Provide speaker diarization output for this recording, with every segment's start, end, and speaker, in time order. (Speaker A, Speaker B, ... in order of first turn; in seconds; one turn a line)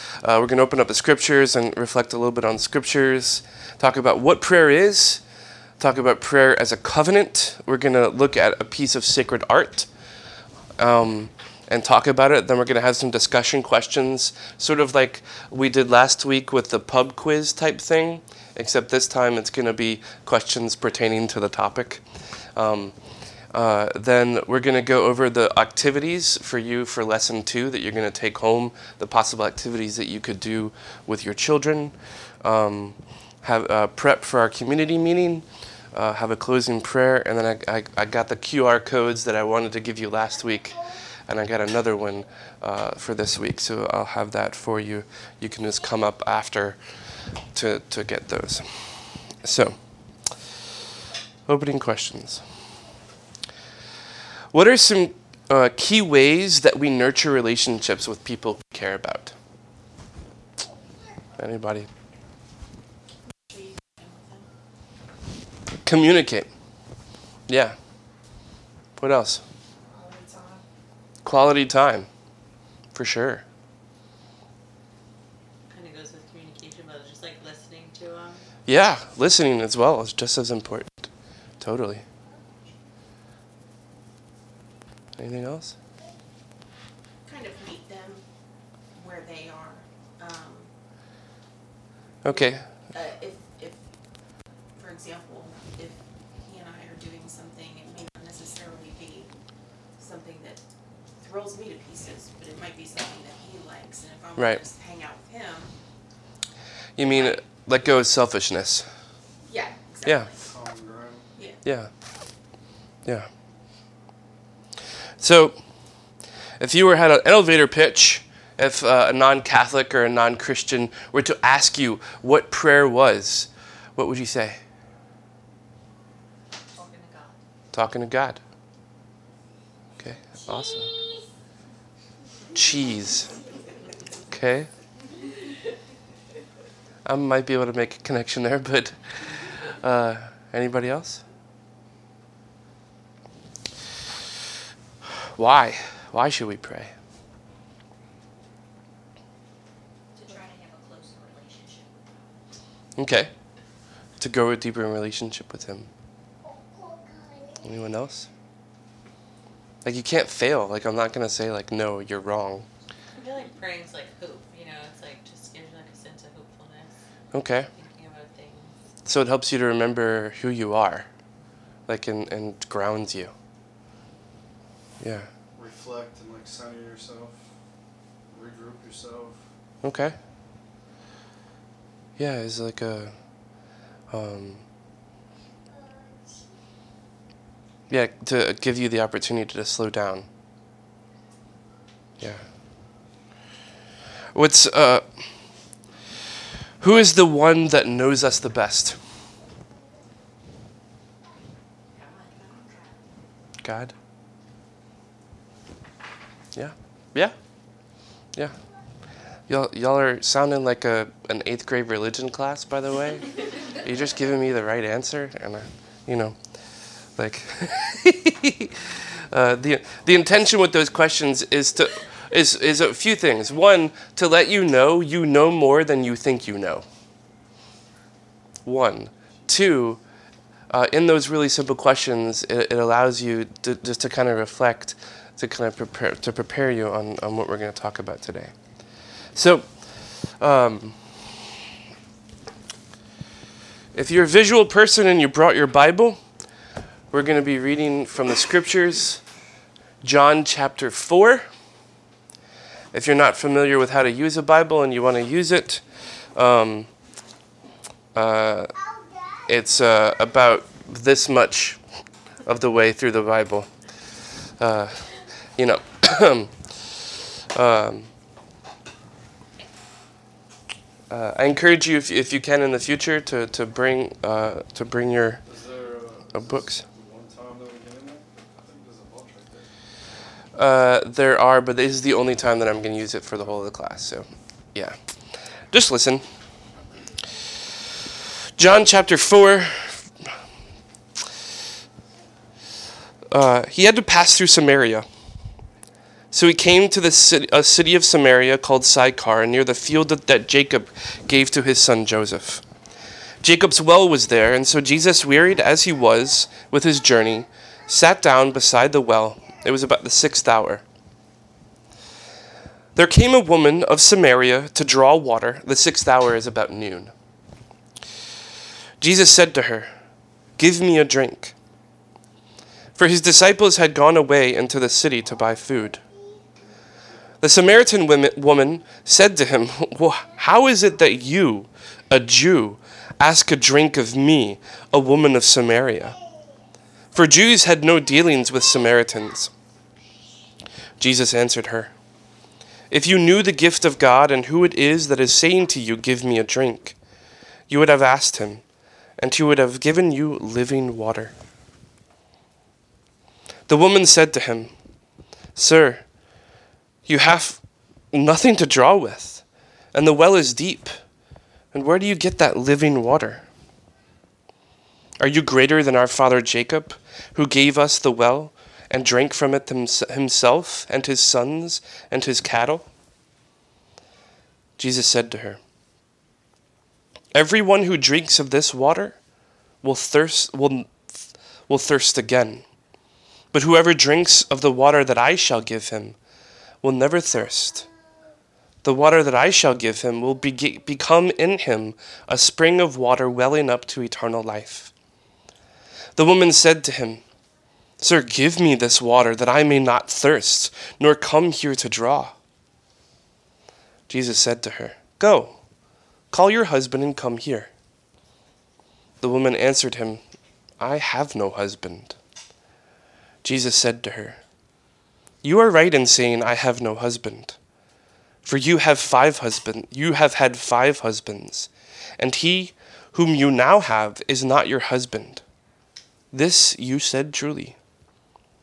Speaker A: 0.2-5.2
Speaker A: 5.8-9.9
Speaker A: 10.8-22.1
Speaker A: 22.6-23.0
Speaker A: 23.5-46.8
Speaker A: 47.5-49.8
Speaker A: 51.5-52.4
Speaker A: 54.5-59.4
Speaker A: 61.4-61.9
Speaker B: 63.5-64.5
Speaker A: 65.8-66.5
Speaker A: 67.5-67.8
Speaker A: 69.0-69.4
Speaker C: 69.9-70.6
Speaker A: 71.2-72.1
Speaker A: 72.9-73.4
Speaker D: 75.7-78.4
Speaker A: 78.7-82.0
Speaker A: 85.2-85.8
Speaker B: 87.2-88.2
Speaker B: 88.9-90.7
Speaker A: 92.2-92.7
Speaker B: 92.2-93.8
Speaker B: 94.8-99.3
Speaker B: 100.0-100.6
Speaker B: 101.2-105.8
Speaker A: 104.4-104.6
Speaker A: 107.0-108.9
Speaker B: 107.0-107.4
Speaker B: 109.5-110.5
Speaker A: 110.0-110.3
Speaker E: 110.4-111.3
Speaker A: 111.7-111.9
Speaker A: 115.2-115.6
Speaker A: 116.6-124.6
Speaker D: 126.8-127.3
Speaker A: 127.7-128.4
Speaker A: 130.0-130.9
Speaker A: 132.5-133.3
Speaker A: 134.3-134.7
Speaker A: 137.1-141.2
Speaker A: 145.3-146.9
Speaker C: 150.2-152.2
Speaker A: 153.0-153.3
Speaker A: 154.2-155.9
Speaker A: 157.6-158.3
Speaker A: 159.8-162.7
Speaker D: 163.2-166.9
Speaker A: 167.3-167.7
Speaker D: 167.8-168.7
Speaker A: 169.1-171.1
Speaker A: 171.9-173.3
Speaker A: 175.0-175.3
Speaker E: 175.6-177.5
Speaker E: 178.3-179.5
Speaker A: 179.8-180.2
Speaker A: 182.2-183.2
Speaker A: 184.1-184.6
Speaker A: 187.9-190.3
Speaker A: 192.2-192.4
Speaker A: 194.3-195.0
Speaker A: 196.8-199.0
Speaker A: 203.6-203.9
Speaker A: 206.6-207.3
Speaker A: 209.5-216.4
Speaker A: 217.2-226.9
Speaker A: 228.7-230.0
Speaker A: 230.7-238.5
Speaker A: 239.3-239.7
Speaker A: 240.4-241.0
Speaker A: 243.9-246.2
Speaker A: 247.1-249.2
Speaker A: 250.0-251.5
Speaker A: 252.9-255.8
Speaker A: 256.4-256.9
Speaker A: 258.1-258.7
Speaker A: 259.5-261.8
Speaker A: 262.4-263.7
Speaker A: 264.6-267.0
Speaker A: 267.5-268.1
Speaker A: 271.1-275.4
Speaker E: 275.5-279.7
Speaker A: 276.3-276.8
Speaker A: 280.6-285.0
Speaker A: 285.7-286.2
Speaker A: 288.6-290.1
Speaker A: 293.3-295.1
Speaker A: 296.3-302.6
Speaker A: 303.4-310.8
Speaker A: 312.9-317.1
Speaker A: 319.0-319.9
Speaker A: 320.6-321.6
Speaker A: 323.0-326.0
Speaker A: 327.4-336.2
Speaker A: 337.1-339.5
Speaker A: 341.0-341.9
Speaker A: 342.9-347.0
Speaker A: 347.7-348.6
Speaker A: 349.2-351.4
Speaker A: 353.7-354.7
Speaker A: 355.6-356.0
Speaker A: 357.1-361.0
Speaker A: 361.7-363.5
Speaker A: 365.2-372.9
Speaker A: 374.8-375.6
Speaker A: 377.3-379.2
Speaker A: 379.8-381.1
Speaker A: 381.7-382.6
Speaker A: 383.5-386.2
Speaker A: 386.8-387.9
Speaker A: 388.8-394.9
Speaker A: 396.2-397.2
Speaker A: 398.0-402.4
Speaker A: 404.1-405.6
Speaker A: 406.3-407.7
Speaker A: 409.2-410.2
Speaker A: 410.8-412.2
Speaker A: 413.4-414.4
Speaker A: 415.4-417.6
Speaker A: 418.4-425.4
Speaker A: 426.3-427.8